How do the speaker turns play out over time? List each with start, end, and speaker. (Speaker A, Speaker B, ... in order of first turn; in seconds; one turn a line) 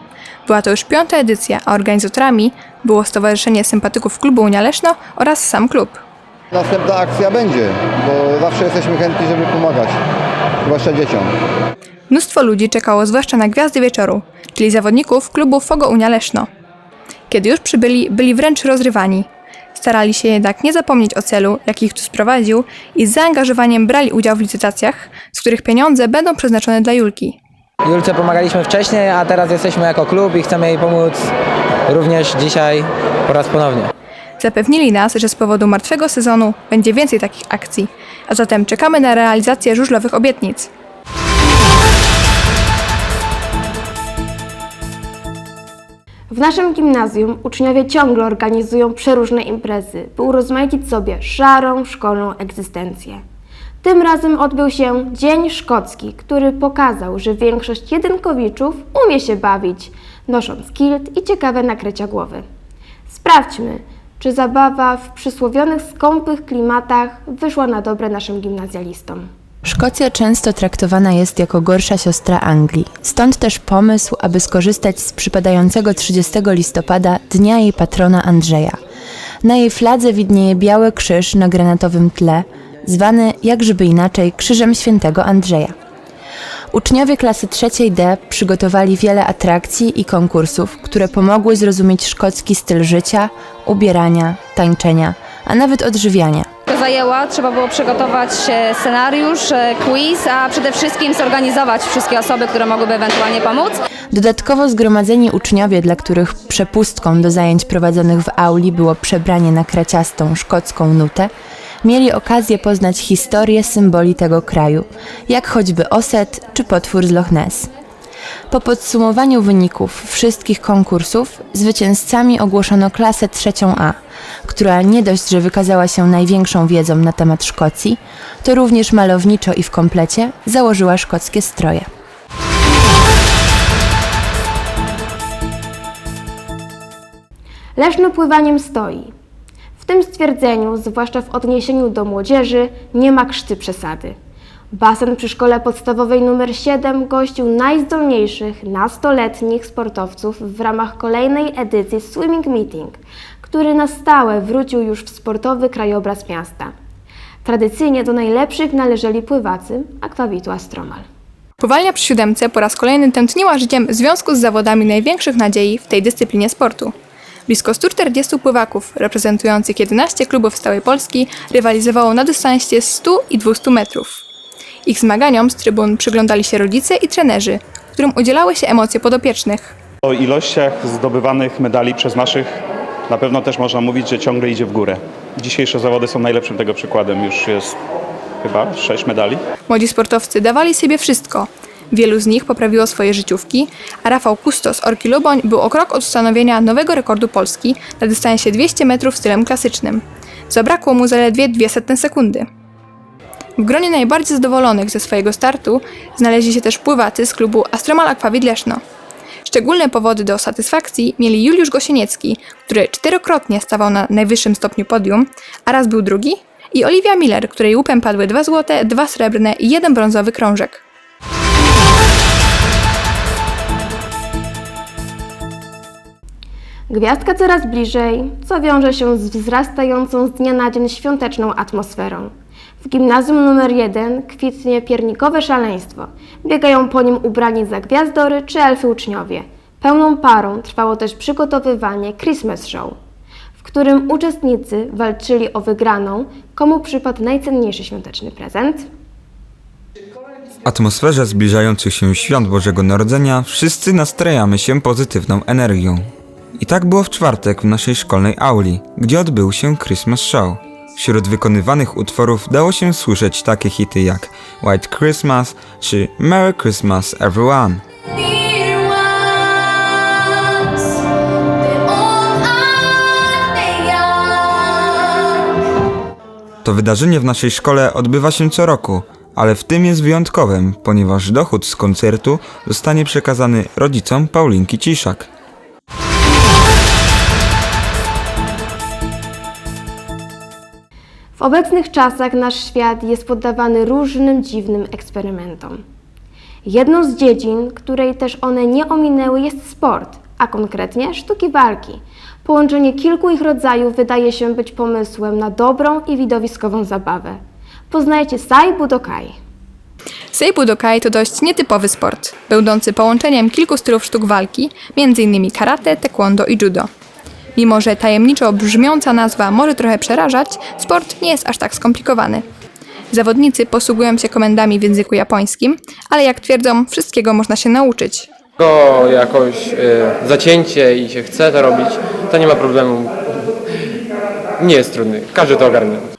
Speaker A: 0.5-6.0
Speaker B: 6.5-9.9
Speaker B: 10.7-11.3
Speaker A: 12.1-16.5
Speaker A: 17.3-27.4
Speaker C: 27.9-31.3
Speaker C: 31.9-33.9
Speaker A: 34.4-40.7
Speaker D: 46.3-53.2
Speaker D: 53.8-62.5
Speaker D: 63.1-69.3
Speaker E: 69.7-78.8
Speaker E: 79.4-85.8
Speaker E: 86.7-96.5
Speaker F: 96.7-103.8
Speaker E: 104.1-111.3
Speaker E: 111.8-117.7
Speaker E: 118.5-131.9
Speaker D: 137.8-139.1
Speaker D: 139.8-144.2
Speaker D: 144.7-156.7
Speaker D: 157.4-161.1
Speaker A: 161.6-166.9
Speaker A: 167.5-174.2
Speaker A: 174.8-179.8
Speaker G: 180.1-182.5
Speaker G: 183.1-187.8
Speaker G: 188.4-189.4
Speaker A: 189.7-202.5
Speaker A: 203.6-208.8
Speaker A: 209.4-220.8
Speaker D: 226.9-243.0
Speaker D: 243.6-248.9
Speaker H: 250.7-256.1
Speaker H: 256.6-267.8
Speaker H: 276.6-285.3
Speaker D: 291.4-295.8
Speaker D: 296.6-309.4
Speaker A: 310.3-316.9
Speaker A: 317.6-322.5
Speaker A: 323.1-328.3
Speaker I: 328.6-333.1
Speaker I: 334.6-336.1